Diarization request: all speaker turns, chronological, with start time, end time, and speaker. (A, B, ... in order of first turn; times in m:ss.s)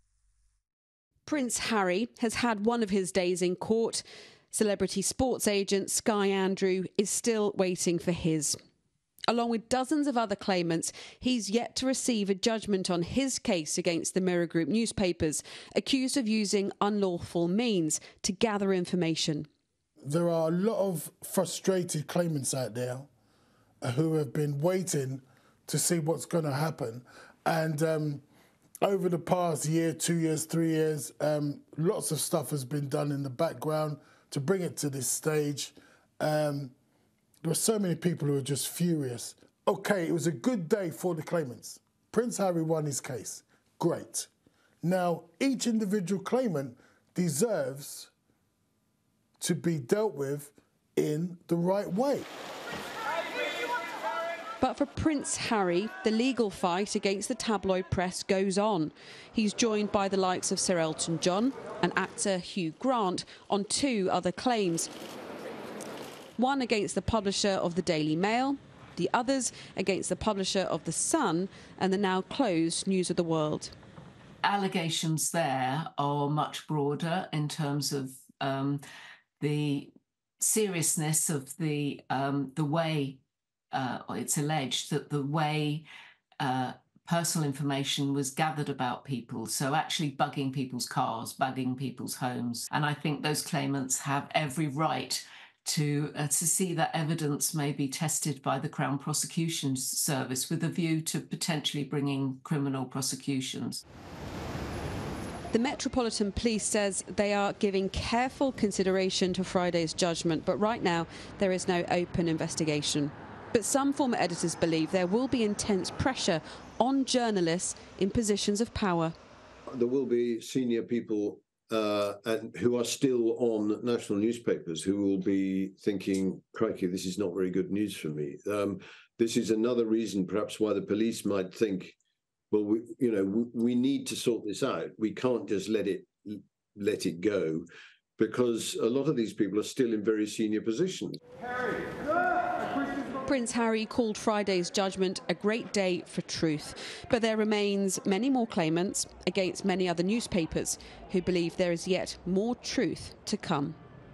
0:01.3-0:08.6 A
0:09.3-0:19.5 A
0:20.0-0:23.1 B
0:23.8-0:28.2 B
0:28.8-0:36.7 B
0:37.4-0:44.3 B
0:44.8-0:48.1 B
0:49.4-0:52.3 B
0:54.6-1:04.9 A
1:06.4-1:13.7 A
1:14.4-1:18.8 C
1:19.4-1:23.2 C
1:23.7-1:25.8 C
1:26.4-1:43.8 C
1:45.5-1:59.1 A
1:59.7-2:12.0 D
2:12.5-2:17.7 D
2:18.2-2:21.2 D
2:23.2-2:33.8 A